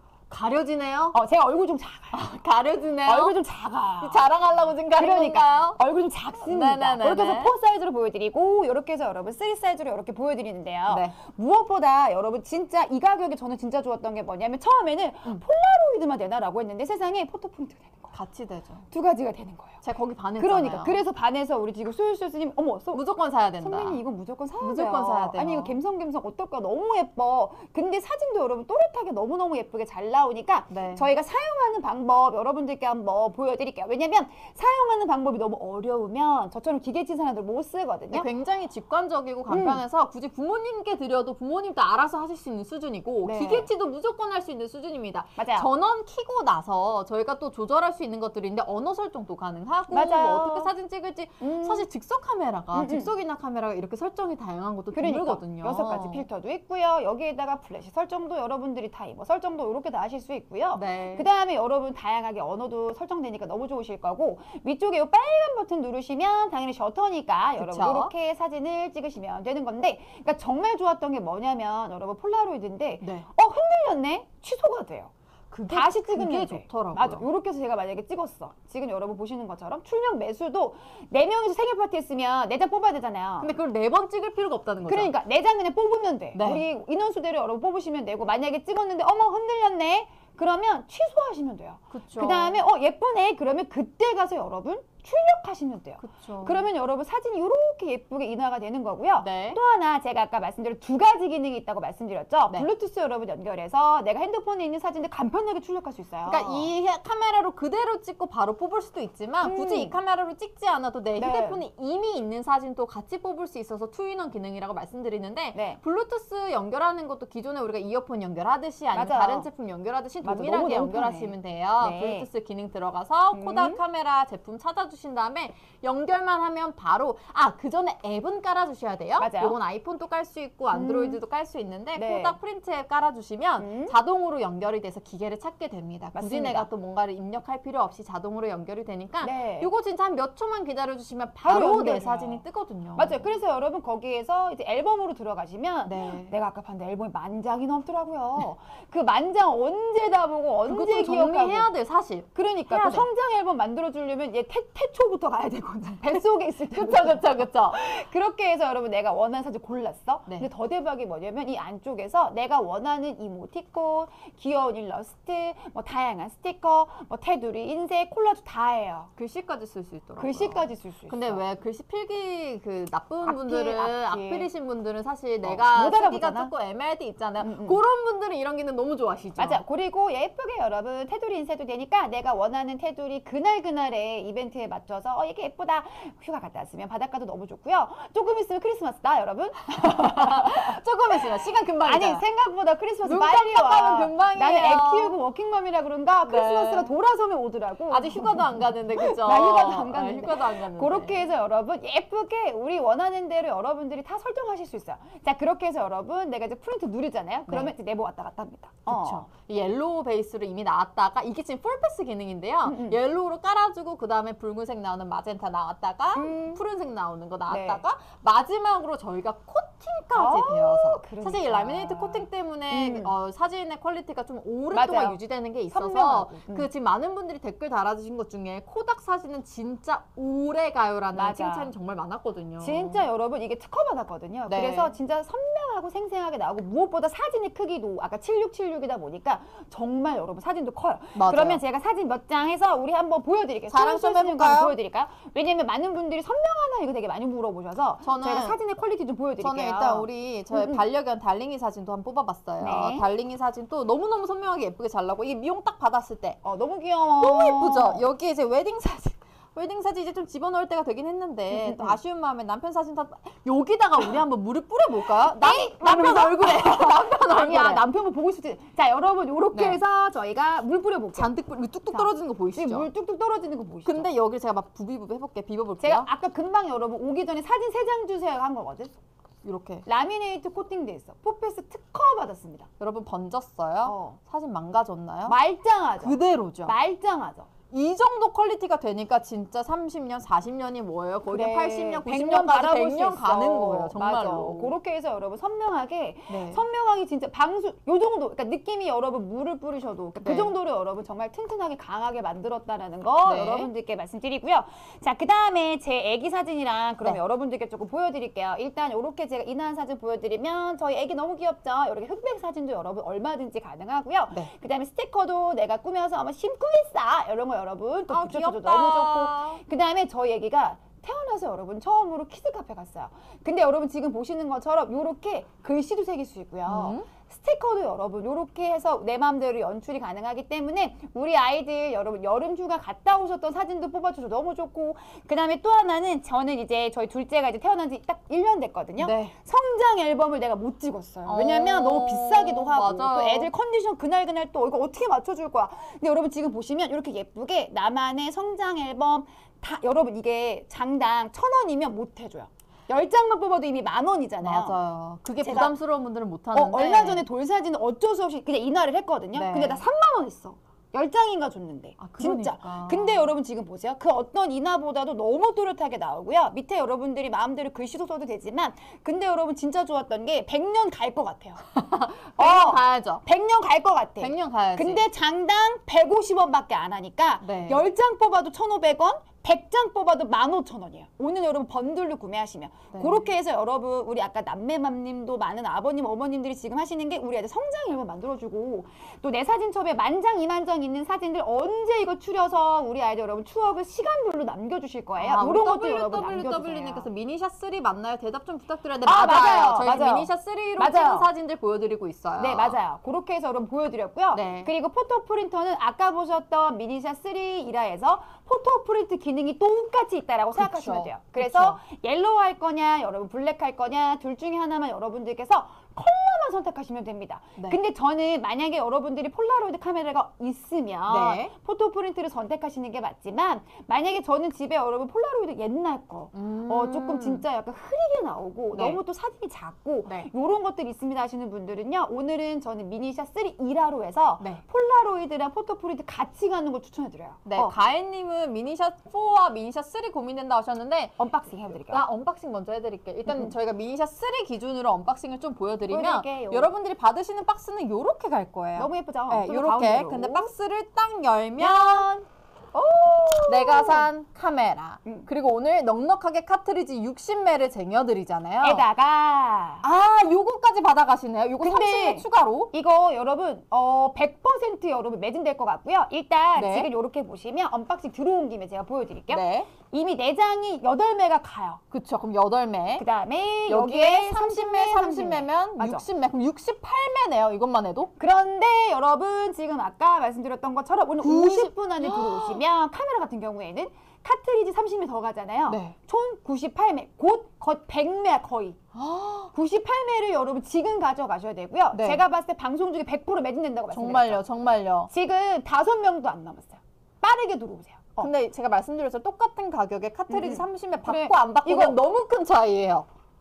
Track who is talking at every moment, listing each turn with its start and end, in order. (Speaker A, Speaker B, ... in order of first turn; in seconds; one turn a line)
Speaker A: 0.3-1.2
Speaker B: 1.1-2.2
Speaker A: 2.1-3.4
Speaker B: 3.0-4.2
Speaker A: 4.0-5.8
Speaker B: 4.9-18.1
Speaker A: 6.4-7.5
Speaker A: 10.9-11.2
Speaker A: 18.1-18.9
Speaker B: 18.9-19.8
Speaker A: 19.8-21.0
Speaker B: 20.4-23.0
Speaker A: 22.9-24.0
Speaker B: 23.6-38.3
Speaker A: 24.6-25.7
Speaker A: 30.7-31.1
Speaker A: 38.1-56.2
Speaker B: 39.5-39.8
Speaker B: 43.2-43.7
Speaker B: 45.4-45.7
Speaker B: 49.9-50.7
Speaker B: 51.4-51.9
Speaker B: 52.7-53.1
Speaker B: 54.9-75.1
Speaker A: 60.7-61.3
Speaker A: 67.6-68.1
Speaker A: 73.0-73.3
Speaker A: 75.5-77.2
Speaker B: 75.7-83.5
Speaker A: 83.4-85.1
Speaker B: 84.9-106.7
Speaker A: 86.3-86.6
Speaker A: 91.9-92.6
Speaker A: 96.0-96.7
Speaker A: 99.2-99.6
Speaker A: 106.2-143.3
Speaker B: 109.4-109.9
Speaker B: 111.2-111.6
Speaker B: 118.9-119.5
Speaker B: 120.2-122.3
Speaker B: 123.3-123.8
Speaker B: 129.2-129.6
Speaker B: 130.7-131.2
Speaker B: 131.9-132.3
Speaker B: 133.6-133.9
Speaker B: 136.1-136.7
Speaker B: 139.2-139.7
Speaker B: 141.4-142.4
Speaker B: 142.9-151.7
Speaker A: 145.9-146.3
Speaker A: 150.7-153.1
Speaker B: 152.3-169.1
Speaker A: 156.7-157.8
Speaker A: 169.2-179.6
Speaker B: 170.2-171.4
Speaker B: 173.2-174.5
Speaker B: 175.4-176.5
Speaker B: 177.4-177.8
Speaker B: 179.4-191.2
Speaker A: 189.8-192.2
Speaker B: 191.8-209.3
Speaker A: 193.0-195.1
Speaker A: 196.2-196.9
Speaker A: 197.9-201.3
Speaker A: 208.9-233.0
Speaker B: 212.6-213.0
Speaker B: 216.1-216.6
Speaker B: 217.5-217.8
Speaker B: 220.1-223.1
Speaker B: 224.7-226.7
Speaker B: 231.1-231.7
Speaker B: 232.6-250.8
Speaker A: 234.5-234.9
Speaker A: 241.1-241.6
Speaker A: 243.7-244.7
Speaker A: 248.0-248.6
Speaker A: 249.4-256.4
Speaker B: 252.6-253.1
Speaker B: 256.4-258.0
Speaker A: 257.2-267.8
Speaker B: 261.5-262.0
Speaker B: 265.3-271.3
Speaker A: 269.5-269.8
Speaker A: 271.1-272.9
Speaker B: 271.9-274.1
Speaker A: 273.8-276.1
Speaker B: 275.8-278.9
Speaker A: 279.4-279.8
Speaker B: 279.9-282.7
Speaker A: 282.8-285.4
Speaker B: 283.8-284.2
Speaker B: 285.3-287.5
Speaker A: 286.0-286.7
Speaker A: 287.7-294.7
Speaker B: 291.3-354.8
Speaker A: 296.3-296.6
Speaker A: 300.2-300.5
Speaker A: 303.2-303.7
Speaker A: 318.1-319.6
Speaker A: 326.7-327.1
Speaker A: 339.0-339.3
Speaker A: 341.2-343.5
Speaker A: 354.4-357.2
Speaker B: 355.4-355.7
Speaker B: 356.5-371.6
Speaker A: 359.3-359.8
Speaker A: 362.0-363.3
Speaker A: 371.6-373.2
Speaker B: 372.4-397.1
Speaker A: 374.2-375.0
Speaker A: 377.4-377.8
Speaker A: 382.9-383.2
Speaker A: 395.2-402.8
Speaker B: 399.0-401.3
Speaker B: 402.4-437.7
Speaker A: 404.3-404.7
Speaker A: 410.5-411.8
Speaker A: 421.1-421.5
Speaker A: 426.3-427.4
Speaker A: 428.7-429.0
Speaker A: 437.4-441.1
Speaker B: 441.2-442.0
Speaker A: 441.9-452.1
Speaker B: 445.9-446.7
Speaker B: 448.8-450.5
Speaker B: 451.6-454.1
Speaker A: 453.5-458.8
Speaker B: 458.6-459.8
Speaker A: 459.8-462.7
Speaker B: 461.6-471.8
Speaker A: 466.5-466.9
Speaker A: 469.3-469.7
Speaker A: 471.9-473.0
Speaker B: 473.0-476.0
Speaker A: 473.7-478.1
Speaker B: 478.2-488.8
Speaker A: 481.2-482.6
Speaker A: 485.7-485.9
Speaker A: 488.9-489.5
Speaker B: 489.5-494.4
Speaker A: 491.9-492.2
Speaker A: 493.9-495.1
Speaker B: 495.1-498.3
Speaker A: 498.2-503.1
Speaker B: 500.3-502.0